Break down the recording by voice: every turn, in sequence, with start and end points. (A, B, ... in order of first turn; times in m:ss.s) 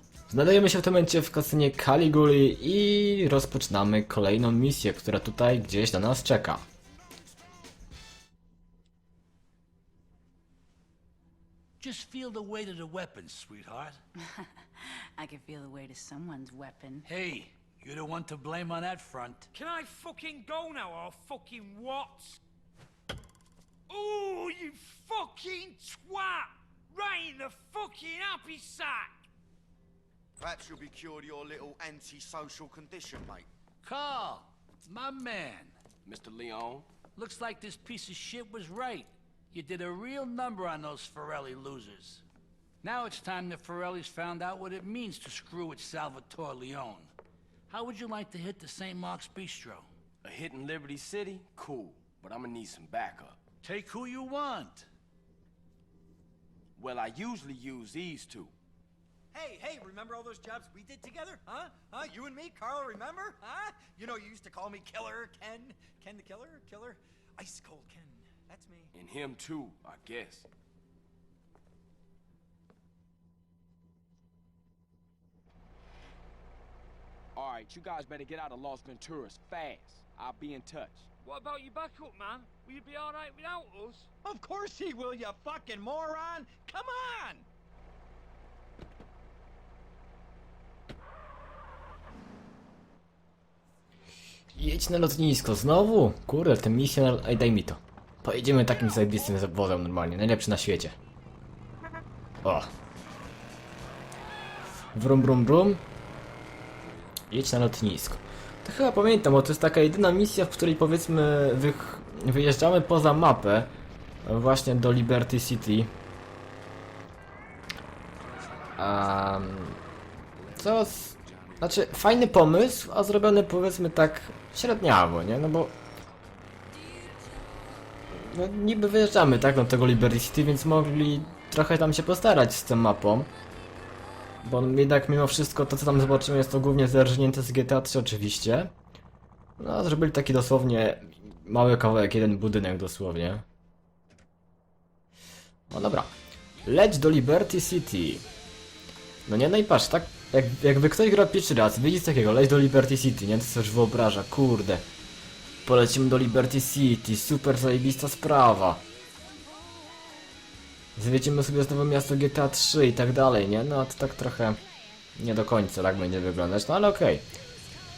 0:00.3-0:06.7 A
0:11.8-0:14.0 B
0:14.3-0:17.1 C
0:17.0-0:19.5 B
0:19.5-0:22.4 D
0:23.9-0:29.3 D
0:30.4-0:33.5 E
0:33.8-0:35.8 B
0:36.1-0:36.9 F
0:37.2-0:42.2 B
0:42.8-0:47.1 B
0:47.7-0:49.9 B
0:50.2-0:53.4 F
0:53.6-0:54.9 B
0:56.8-0:58.5 F
0:59.3-1:08.9 G
1:08.9-1:10.5 F
1:17.4-1:21.1 F
1:21.2-1:24.1 D
1:24.2-1:27.5 G
1:34.5-1:41.0 A
1:42.4-1:42.7 A
1:44.9-1:45.8 A
1:47.3-1:55.9 A
1:58.8-1:59.8 A
2:00.6-2:05.8 A
2:08.1-2:13.3 A
2:14.4-2:18.7 A
2:19.6-2:23.4 A
2:25.7-2:28.3 A
2:29.3-2:34.8 A
2:35.6-2:38.8 A
2:41.0-2:44.6 A
2:45.2-2:47.3 A